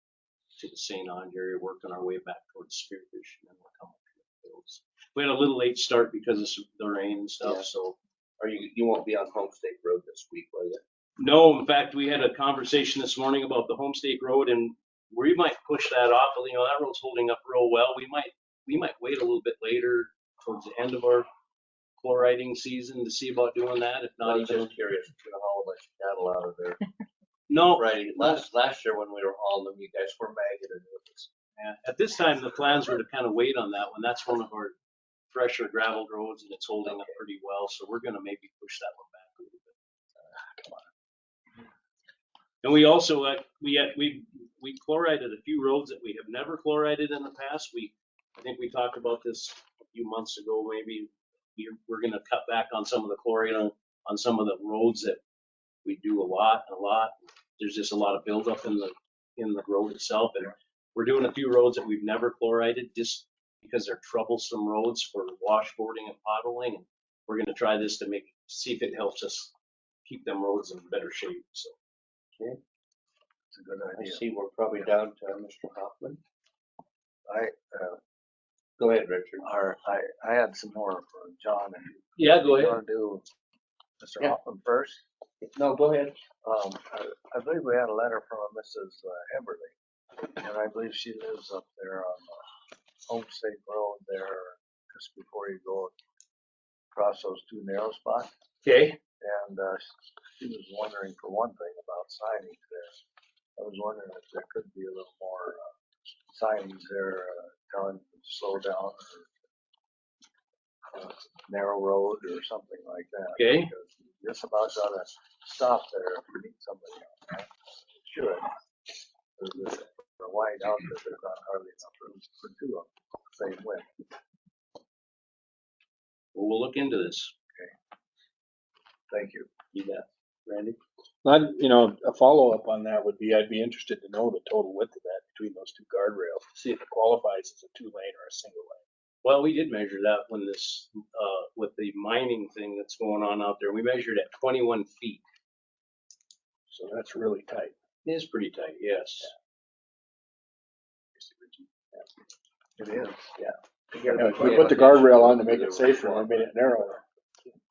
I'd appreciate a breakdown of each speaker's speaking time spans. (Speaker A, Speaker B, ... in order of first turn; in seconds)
Speaker A: 0.6-8.0, 11.2-21.3, 22.0-24.7, 27.5-28.4, 31.6-34.8, 35.3-39.7, 42.6-55.2, 55.8-69.5, 70.0-71.7, 82.2-82.8, 98.6-99.0, 113.3-113.7, 126.3-127.3, 139.2-145.2, 148.0-149.3
Speaker B: 7.4-7.7, 8.4-10.8, 24.2-26.8, 27.7-31.3, 73.9-76.2, 78.8-79.5, 85.4-86.2, 130.5-130.7, 154.0-156.6
Speaker C: 40.5-40.8, 73.5-74.2, 77.3-78.0, 79.4-83.2, 84.0-85.0, 86.4-89.7, 90.3-92.4, 93.1-95.9, 96.9-98.3, 99.2-102.9, 103.6-105.6, 106.3-109.3, 110.9-118.5, 119.4-123.9, 129.1-129.5, 152.8-153.3, 153.9-154.9
Speaker D: 131.2-138.8, 146.7-147.8, 151.2-151.6, 154.1-157.0